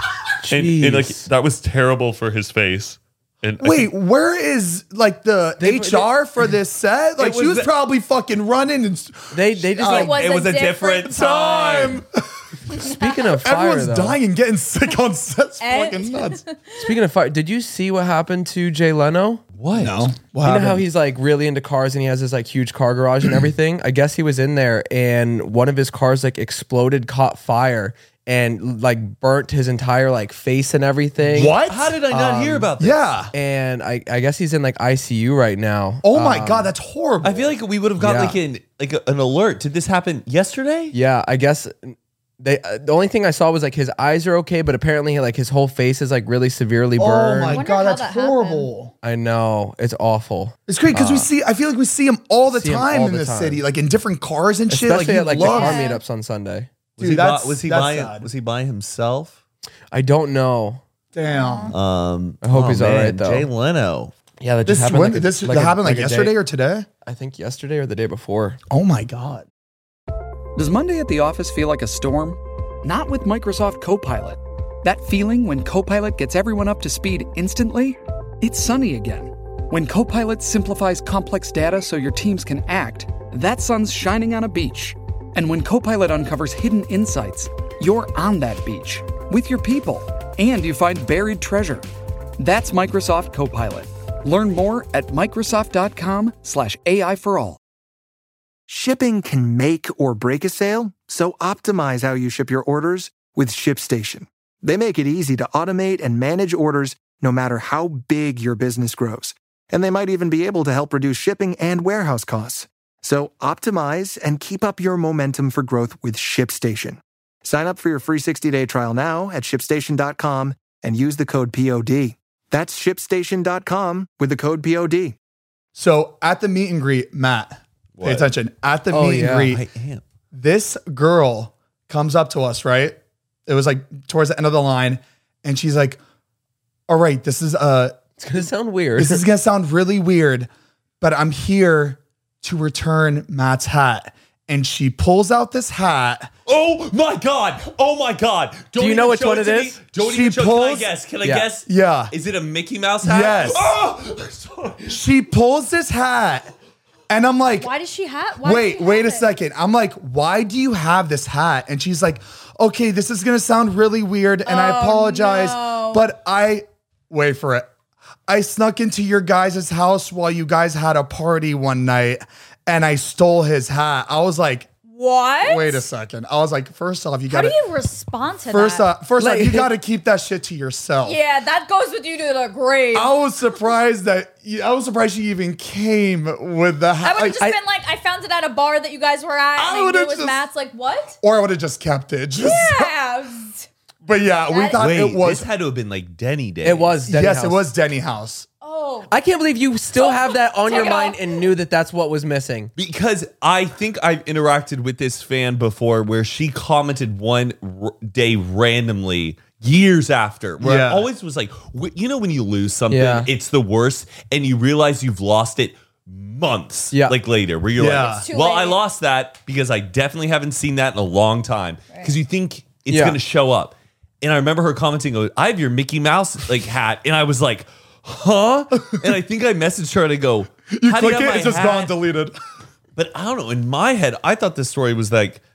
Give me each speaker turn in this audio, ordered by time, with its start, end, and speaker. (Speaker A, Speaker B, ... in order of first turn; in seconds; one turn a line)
Speaker A: 0.4-1.3
Speaker B: 0.5-3.9
Speaker C: 3.6-10.1
Speaker A: 5.6-6.1
Speaker B: 7.2-7.7
Speaker A: 9.3-10.1
Speaker D: 9.8-11.9
Speaker B: 10.0-12.0
Speaker C: 11.1-16.4
Speaker A: 12.8-14.2
Speaker D: 15.6-16.9
Speaker A: 16.8-19.4
Speaker B: 19.6-20.0
Speaker C: 19.7-20.8
Speaker A: 20.4-31.6
Speaker C: 31.3-33.3
Speaker B: 31.3-33.0
Speaker A: 33.3-36.7
Speaker C: 36.0-37.5
Speaker B: 37.2-40.9
Speaker A: 38.0-38.4
Speaker A: 40.9-47.6
Speaker C: 47.0-48.9
Speaker D: 47.5-48.7
Speaker A: 49.0-51.3
Speaker C: 50.7-55.9
Speaker A: 52.5-53.6
Speaker A: 54.7-56.7
Speaker D: 55.4-56.0
Speaker B: 57.0-59.4
Speaker C: 57.0-58.2
Speaker A: 59.9-60.8
Speaker C: 61.1-61.7
Speaker D: 61.3-61.7
Speaker B: 61.7-64.1
Speaker A: 62.4-63.5
Speaker A: 64.4-66.3
Speaker C: 64.7-66.9
Speaker A: 67.0-68.6
Speaker C: 68.7-69.5
Speaker E: 70.5-91.8
Speaker E: 92.4-97.6
Speaker F: 98.7-125.2
Speaker C: 125.7-129.6
Speaker B: 128.0-128.3
Speaker A: 128.9-129.5
Speaker B: 129.4-130.0
Speaker C: 130.3-136.0
Speaker C: 136.9-138.4
Speaker A: 138.2-139.2
Speaker C: 139.0-140.5
Speaker C: 141.0-146.3
Speaker B: 146.4-154.9
Speaker A: 148.8-149.8
Speaker C: 150.0-150.9
Speaker C: 151.7-152.1
Speaker C: 153.0-153.7
Speaker C: 154.9-156.5
Speaker C: 157.1-157.7
Speaker D: 157.6-159.3
Speaker C: 158.4-167.7
Speaker D: 164.4-166.0
Speaker C: 168.3-174.7
Speaker D: 174.9-175.8
Speaker C: 175.4-177.6
Speaker D: 177.3-178.9
Speaker C: 178.5-181.2
Speaker A: 179.2-179.7
Speaker D: 181.0-183.1
Speaker C: 182.9-187.4
Speaker D: 187.0-191.2
Speaker C: 189.6-190.4
Speaker C: 191.2-192.9
Speaker D: 192.4-193.7
Speaker C: 194.0-195.5
Speaker D: 194.5-194.8
Speaker B: 194.8-197.0
Speaker A: 196.6-197.6
Speaker C: 197.1-198.5
Speaker D: 198.6-199.1
Speaker A: 199.1-202.7
Speaker D: 199.9-201.4
Speaker B: 202.8-231.9
Speaker C: 210.6-211.1
Speaker A: 212.9-213.3
Speaker C: 217.8-218.2
Speaker D: 217.9-218.8
Speaker A: 222.9-223.2
Speaker C: 230.7-232.3
Speaker B: 232.9-235.4